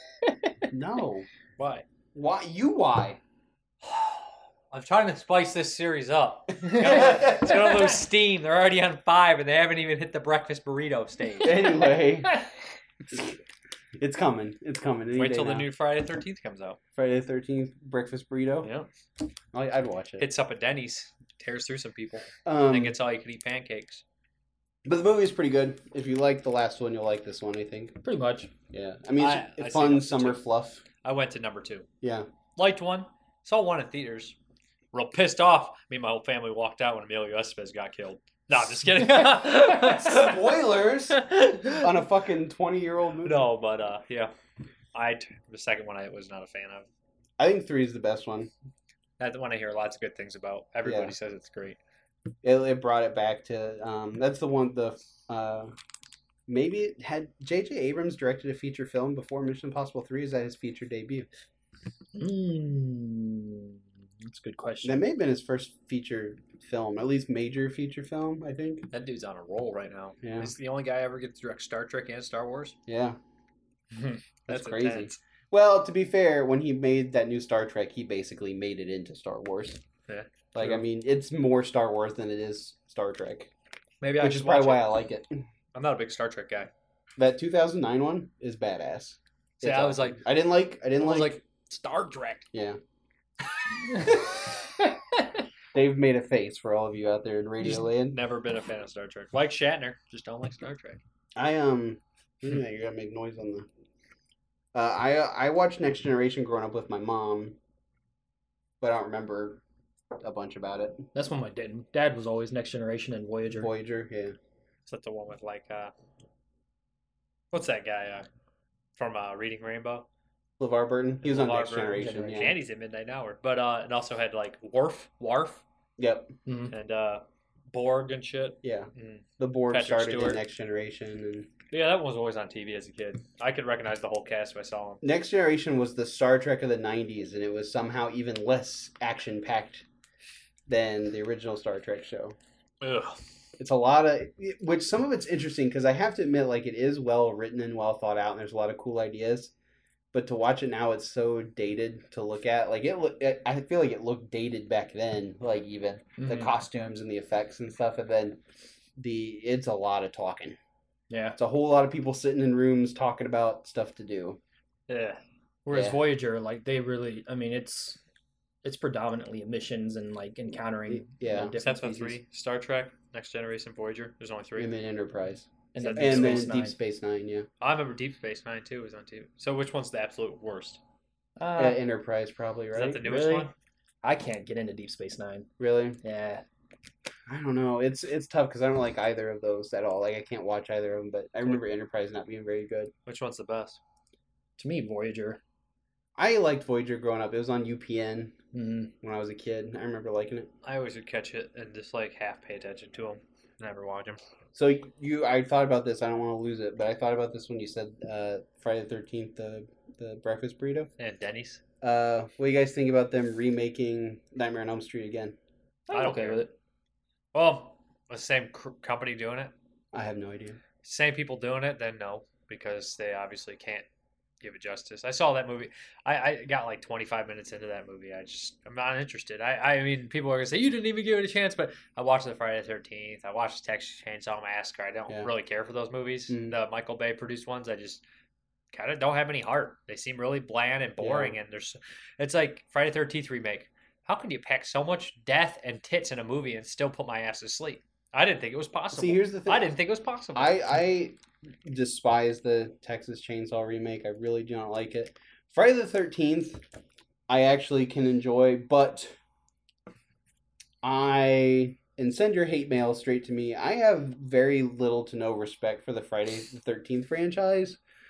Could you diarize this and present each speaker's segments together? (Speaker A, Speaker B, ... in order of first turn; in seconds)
Speaker A: 0.2-0.5, 6.6-8.0, 28.0-28.5, 62.2-65.0, 93.9-94.2, 94.8-95.2, 111.1-113.7, 122.0-122.3, 126.5-126.7, 156.2-156.5, 161.1-161.4, 164.9-168.0, 168.6-172.1, 175.7-176.8, 181.4-181.8, 183.0-183.5, 184.0-185.5, 186.0-186.4, 194.6-195.4, 198.5-198.9, 215.9-216.5
Speaker B: 0.7-1.3, 2.1-3.2, 6.7-7.6, 11.4-12.3, 13.1-13.4, 14.0-15.7, 17.0-18.7, 19.5-20.3, 22.4-23.0, 24.9-28.0, 28.7-30.8, 32.0-32.3, 39.8-43.5, 47.4-48.5, 50.8-51.1, 52.4-55.7, 56.5-61.3, 64.8-68.9, 70.2-70.5, 72.9-73.2, 74.5-79.8, 80.5-83.5, 84.2-85.4, 87.2-91.4, 92.5-92.8, 95.7-98.2, 101.4-103.7, 104.7-107.6, 108.8-109.6, 110.2-111.1, 113.5-114.3, 120.6-122.6, 126.0-126.3, 128.6-131.5, 135.0-139.9, 140.7-142.4, 143.6-149.5, 150.1-158.4, 159.0-160.6, 161.4-164.4, 165.7-166.0, 170.9-172.2, 174.6-177.5, 181.6-183.0, 185.6-186.0, 187.3-192.9, 196.2-198.3, 199.0-200.5, 204.6-210.9, 211.8-215.4, 219.9-220.6, 236.3-236.6, 241.0-241.4, 248.9-249.8, 250.3-256.6, 257.3-259.1, 260.8-267.8
Speaker C: 1.6-1.9, 4.7-11.6, 15.1-16.8, 18.6-18.9, 20.2-24.0, 29.2-30.4, 31.0-31.9, 32.6-34.4, 34.9-40.5, 41.1-41.9, 43.2-44.3, 44.9-46.9, 49.2-51.8, 68.9-72.8, 73.9-75.2, 80.1-80.8, 84.0-84.9, 85.8-86.7, 89.6-90.2, 91.0-92.5, 97.8-101.0, 114.9-115.9, 117.5-118.3, 119.0-120.1, 121.2-125.6, 126.7-130.4, 131.7-135.0, 142.8-143.2, 171.6-174.7, 175.8-176.5, 177.6-180.8, 182.7-183.5, 193.1-193.8, 200.6-204.2, 211.0-211.6, 215.9-216.4, 217.3-219.5, 220.8-223.8, 224.4-238.0, 238.7-250.6